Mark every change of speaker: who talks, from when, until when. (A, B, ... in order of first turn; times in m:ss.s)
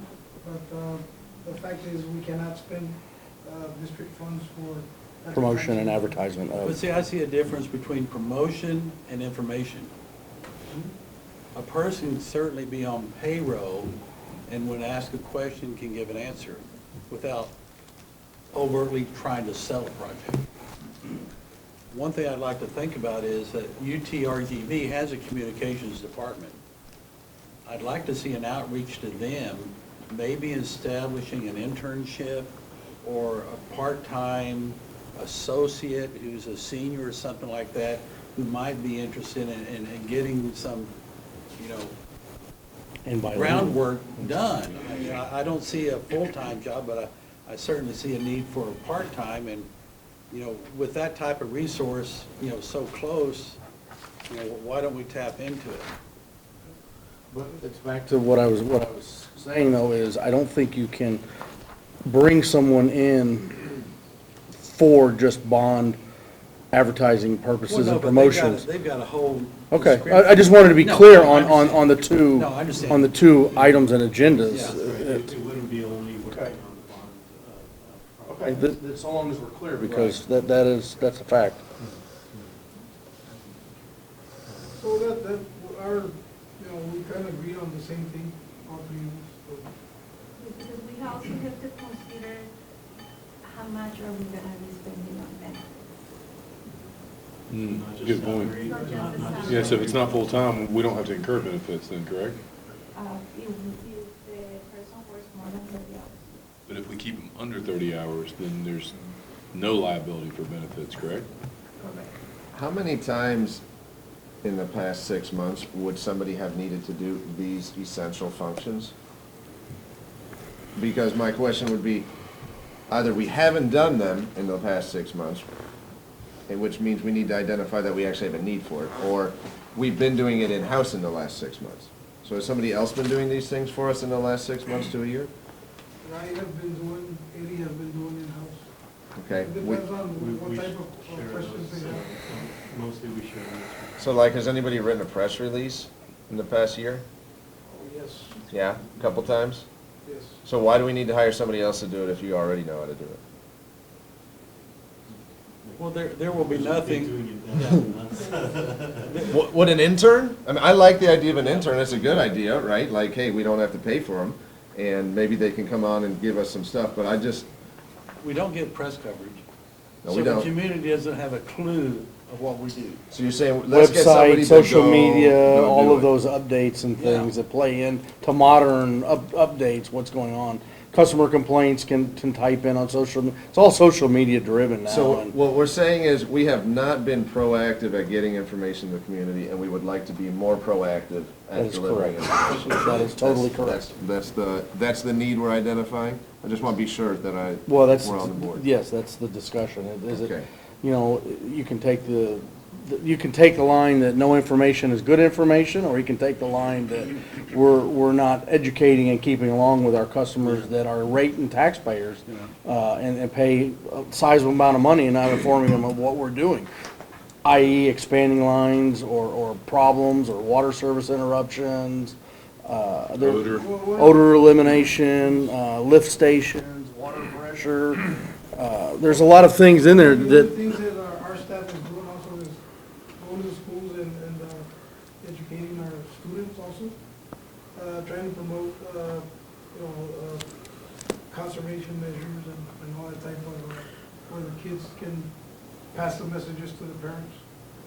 0:00.4-0:06.2 A
0:05.3-0:06.8 B
0:06.6-0:09.9 C
0:11.5-0:14.0 C
0:14.5-0:17.5 C
0:18.5-0:20.4 C
0:21.9-0:26.6 C
0:27.7-0:40.9 C
0:41.6-0:41.9 C
0:43.0-0:43.8 B
0:43.3-0:49.7 C
0:50.3-0:53.6 C
0:54.3-0:55.9 C
0:57.3-1:01.2 B
1:02.0-1:03.7 B
1:04.6-1:06.0 B
1:06.7-1:08.7 B
1:07.7-1:13.2 C
1:09.7-1:15.3 B
1:12.8-1:14.0 D
1:14.5-1:14.8 C
1:14.5-1:18.8 D
1:16.3-1:16.6 B
1:18.2-1:21.6 B
1:21.8-1:22.6 D
1:24.4-1:24.8 D
1:24.8-1:29.7 A
1:30.4-1:32.5 E
1:33.4-1:35.7 E
1:37.5-1:38.7 F
1:37.7-1:40.6 D
1:38.6-1:40.2 E
1:39.4-1:42.4 F
1:43.0-1:46.4 E
1:46.7-1:49.0 F
1:49.5-1:51.3 F
1:51.8-1:52.1 E
1:52.5-1:53.6 G
1:54.4-1:58.9 G
2:00.8-2:02.1 G
2:02.9-2:05.4 G
2:06.5-2:15.3 G
2:16.0-2:18.7 A
2:19.2-2:19.8 G
2:19.3-2:22.2 A
2:20.1-2:24.3 D
2:24.0-2:27.0 G
2:27.6-2:28.4 A
2:28.5-2:29.6 G
2:30.0-2:30.4 A
2:30.4-2:33.2 G
2:35.6-2:39.2 D
2:35.8-2:37.8 C
2:39.0-2:39.4 C
2:39.3-2:47.5 G
2:41.3-2:41.7 C
2:48.2-2:49.4 C
2:50.0-2:50.5 G
2:50.0-2:53.0 C
2:53.1-2:56.1 G
2:53.7-3:05.3 B
2:57.0-2:57.3 C
3:04.9-3:18.6 G
3:11.5-3:13.9 B
3:17.7-3:36.7 B
3:20.1-3:20.5 G
3:32.2-3:32.5 C
3:37.4-3:50.5 B
3:43.2-3:43.6 F
3:43.6-3:45.1 A
3:49.8-3:52.6 A
3:53.2-3:54.7 A
3:55.2-3:57.0 A
3:57.7-4:07.4 A